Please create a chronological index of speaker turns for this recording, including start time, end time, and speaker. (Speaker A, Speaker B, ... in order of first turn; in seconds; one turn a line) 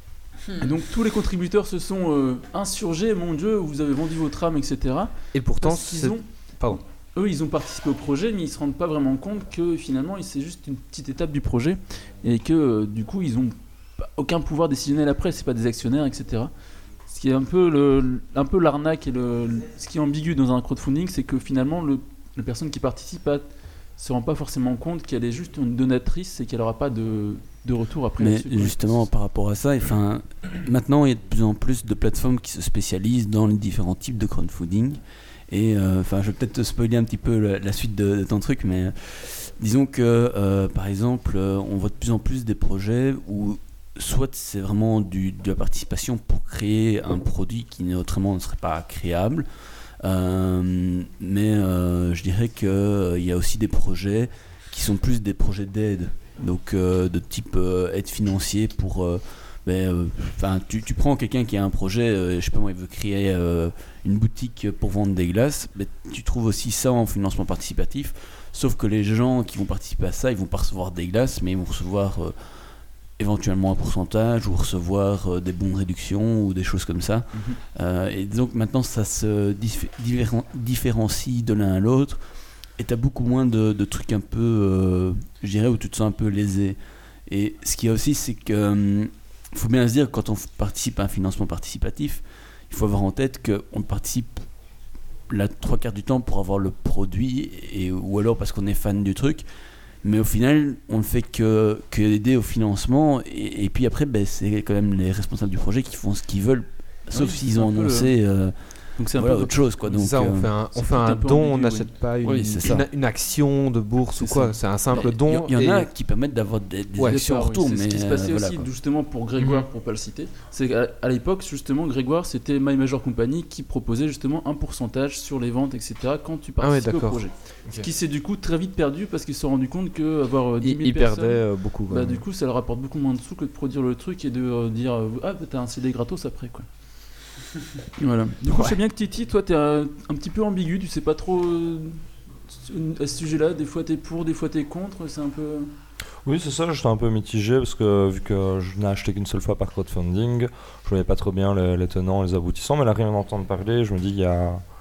Speaker A: 0.6-16.5
Speaker B: 5.3-6.8
Speaker A: 17.1-23.4
Speaker A: 24.0-28.9
Speaker C: 28.2-49.5
Speaker C: 50.0-72.3
Speaker C: 73.2-82.2
Speaker A: 77.3-77.6
Speaker C: 82.8-94.4
Speaker C: 95.3-99.4
Speaker C: 100.0-110.5
Speaker A: 107.1-108.1
Speaker A: 109.0-110.1
Speaker B: 109.9-115.9
Speaker A: 110.7-112.7
Speaker C: 112.2-112.8
Speaker A: 114.2-115.1
Speaker C: 115.0-118.7
Speaker B: 117.0-117.3
Speaker A: 117.0-136.7
Speaker B: 126.6-127.9
Speaker B: 130.6-132.2
Speaker A: 138.0-142.0
Speaker A: 142.5-145.7
Speaker D: 146.2-154.6